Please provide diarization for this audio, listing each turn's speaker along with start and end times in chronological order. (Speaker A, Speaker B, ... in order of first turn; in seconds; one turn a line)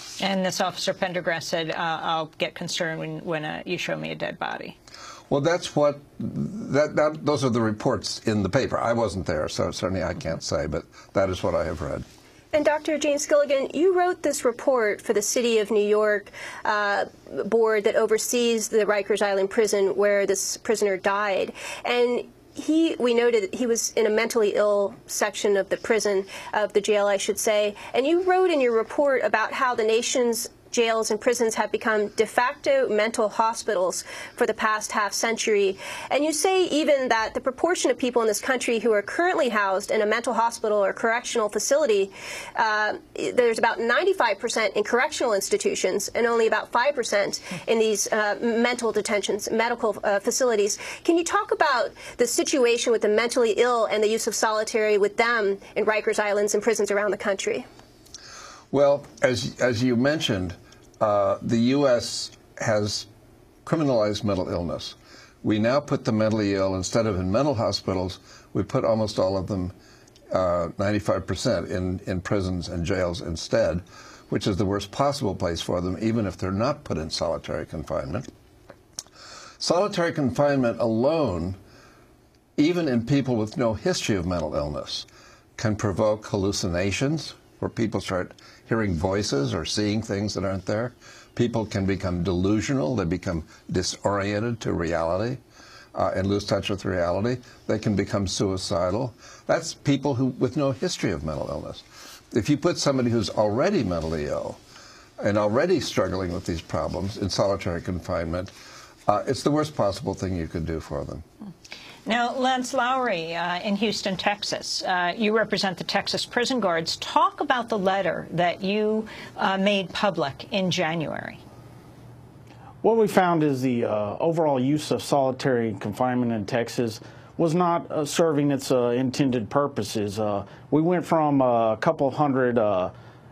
Speaker A: 0.2-4.8
Speaker B: 5.3-12.1
Speaker C: 12.5-57.6
Speaker B: 58.7-63.1
Speaker B: 63.6-69.7
Speaker B: 70.3-78.3
Speaker B: 79.6-81.6
Speaker B: 82.6-95.4
Speaker B: 96.0-104.6
Speaker B: 105.2-108.5
Speaker B: 109.1-111.2
Speaker A: 112.1-121.4
Speaker D: 122.8-132.9